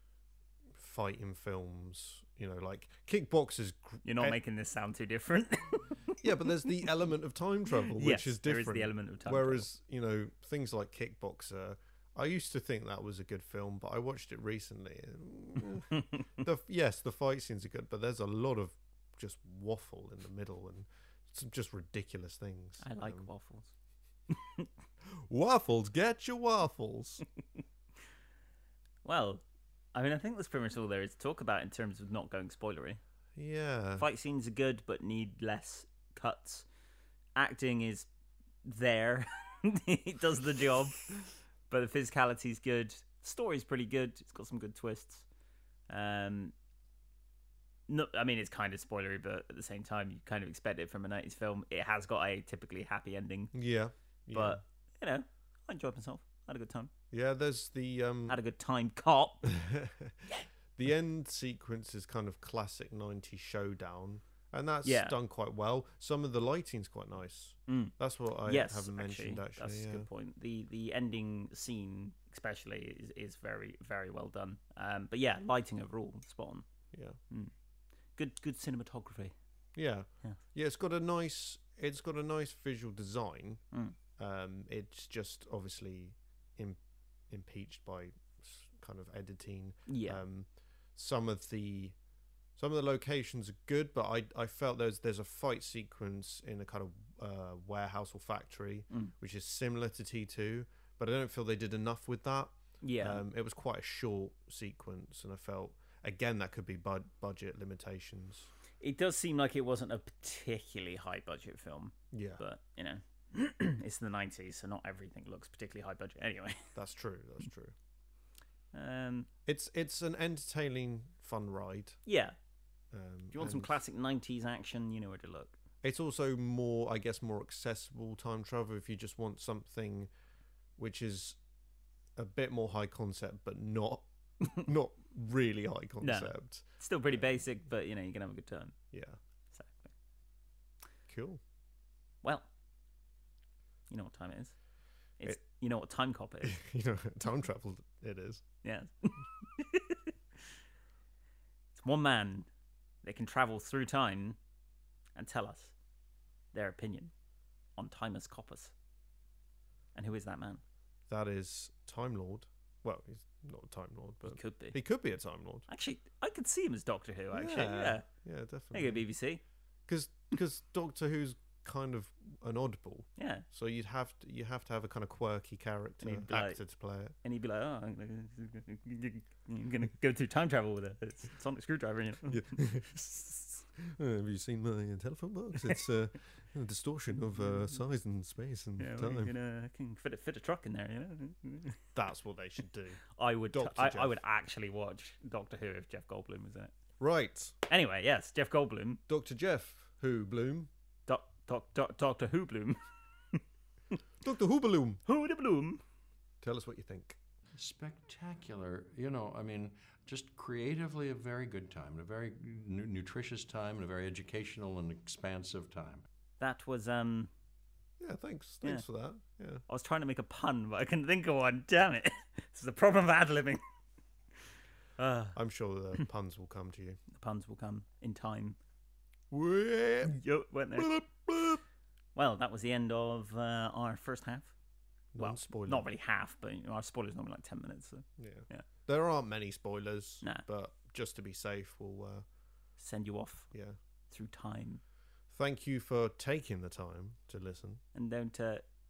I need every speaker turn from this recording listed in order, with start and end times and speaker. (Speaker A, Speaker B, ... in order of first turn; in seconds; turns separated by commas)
Speaker A: 0.7-4.4, Speaker B: 4.0-6.1, Speaker A: 6.1-23.3, Speaker B: 7.9-9.7, Speaker B: 15.9-16.2, Speaker B: 22.8-23.7, Speaker B: 24.3-24.7, Speaker A: 25.1-27.2, Speaker B: 29.0-29.4, Speaker B: 29.9-33.0, Speaker A: 33.4-34.1, Speaker B: 34.0-36.7, Speaker B: 37.4-38.1, Speaker B: 38.6-45.2, Speaker B: 45.9-46.5, Speaker B: 47.9-53.5, Speaker A: 53.5-54.6, Speaker B: 54.3-56.9, Speaker A: 57.1-58.4, Speaker B: 58.3-59.5, Speaker A: 59.4-60.2, Speaker A: 60.8-70.1, Speaker B: 64.8-65.2, Speaker B: 67.7-67.9, Speaker B: 68.5-76.7, Speaker A: 76.9-77.2, Speaker B: 78.2-79.3, Speaker A: 79.8-83.6, Speaker A: 84.2-86.8, Speaker A: 87.3-92.0, Speaker B: 89.9-90.2, Speaker A: 92.6-108.5, Speaker B: 102.8-103.2, Speaker B: 108.8-116.7, Speaker A: 112.1-112.4, Speaker A: 116.8-117.8, Speaker B: 118.7-119.3, Speaker A: 119.5-122.0, Speaker B: 122.1-122.3, Speaker A: 122.9-123.8, Speaker B: 123.3-125.6, Speaker A: 125.8-130.1, Speaker A: 130.8-131.4, Speaker A: 132.2-137.2, Speaker B: 136.0-138.8, Speaker A: 138.9-139.2, Speaker B: 139.5-139.9, Speaker A: 141.1-141.4, Speaker B: 143.9-144.6, Speaker B: 145.2-146.6, Speaker A: 146.4-148.4, Speaker B: 148.6-150.1, Speaker B: 151.7-152.5, Speaker B: 153.0-154.4, Speaker B: 155.2-155.7, Speaker B: 156.5-157.1, Speaker B: 157.8-158.7, Speaker B: 159.9-160.6, Speaker A: 161.1-165.7, Speaker B: 164.3-164.8, Speaker B: 165.7-168.1, Speaker A: 167.3-169.1, Speaker B: 168.7-169.4, Speaker A: 169.9-177.2, Speaker B: 173.2-173.4, Speaker B: 176.0-176.6, Speaker B: 177.2-182.6, Speaker A: 182.3-189.3, Speaker B: 188.8-191.8, Speaker A: 191.9-193.0, Speaker B: 193.2-196.7, Speaker A: 193.5-194.2, Speaker A: 197.0-197.6, Speaker B: 197.7-199.0, Speaker A: 199.1-200.7, Speaker B: 201.1-202.8, Speaker A: 204.2-205.0, Speaker B: 205.1-205.8, Speaker A: 206.4-207.2, Speaker C: 207.6-216.1, Speaker B: 216.4-217.3, Speaker A: 218.0-219.6, Speaker B: 219.7-223.6, Speaker B: 225.0-225.4, Speaker A: 225.3-227.0, Speaker B: 227.1-228.6, Speaker A: 229.3-230.2, Speaker B: 230.1-230.9, Speaker A: 230.8-231.6, Speaker B: 232.2-234.5, Speaker A: 235.1-235.9, Speaker B: 235.2-238.7, Speaker A: 238.2-242.2, Speaker B: 242.8-243.5, Speaker A: 243.5-243.8, Speaker B: 244.1-244.8, Speaker A: 245.3-247.8, Speaker B: 247.9-248.6